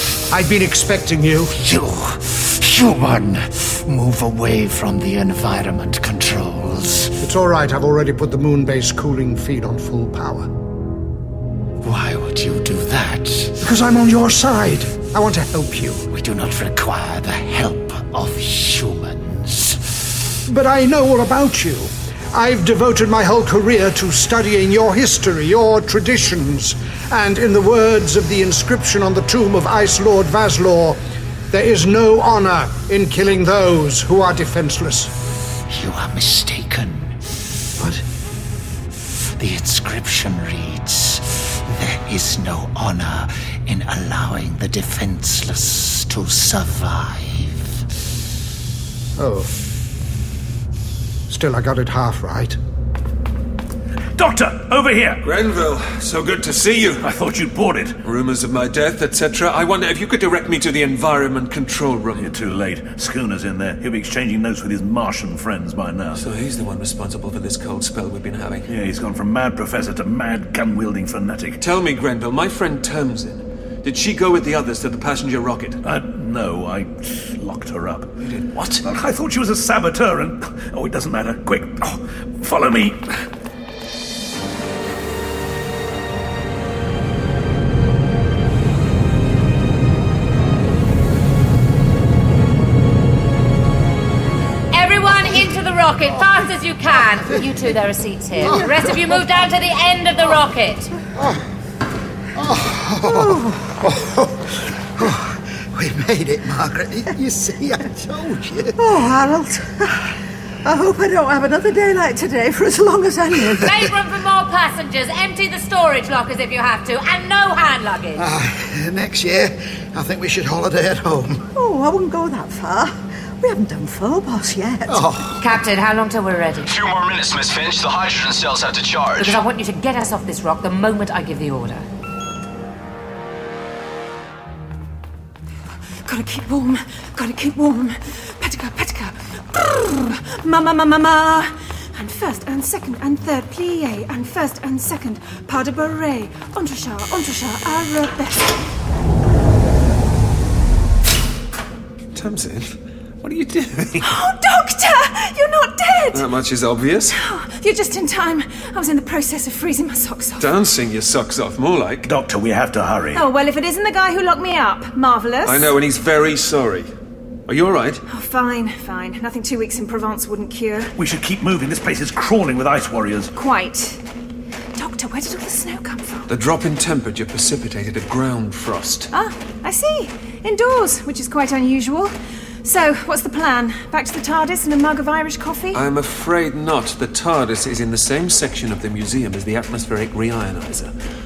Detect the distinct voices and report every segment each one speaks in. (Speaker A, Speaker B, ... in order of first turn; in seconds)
Speaker A: 0.3-1.5, 7.2-10.5, 13.6-16.1, 20.5-35.1, 49.2-49.5, 51.3-52.6
Speaker B: 1.6-7.2, 11.8-13.6, 16.1-20.0, 35.7-37.2, 39.4-47.7
Speaker C: 54.2-55.2, 57.0-58.0, 62.2-66.2, 68.7-71.6, 75.8-78.1, 78.8-83.1, 162.1-163.2, 171.0-173.3
Speaker D: 55.2-57.1, 58.0-62.3, 66.2-68.7, 71.6-75.8, 78.2-78.8, 152.1-154.1, 156.1-157.2, 160.4-162.1, 165.4-166.9, 167.5-168.0, 176.3-179.1, 185.7-190.9
Speaker E: 94.7-100.9, 113.6-118.2, 125.4-126.7, 129.2-131.9
Speaker F: 98.4-99.0, 102.4-108.8, 118.2-121.4, 124.9-125.4
Speaker G: 103.0-103.8, 108.8-110.0, 110.7-113.8, 121.5-125.1
Speaker H: 126.7-129.4
Speaker I: 136.1-148.6, 154.0-156.2, 157.1-160.5, 163.1-165.7, 168.1-170.9, 173.4-174.0, 174.8-176.3, 179.1-185.8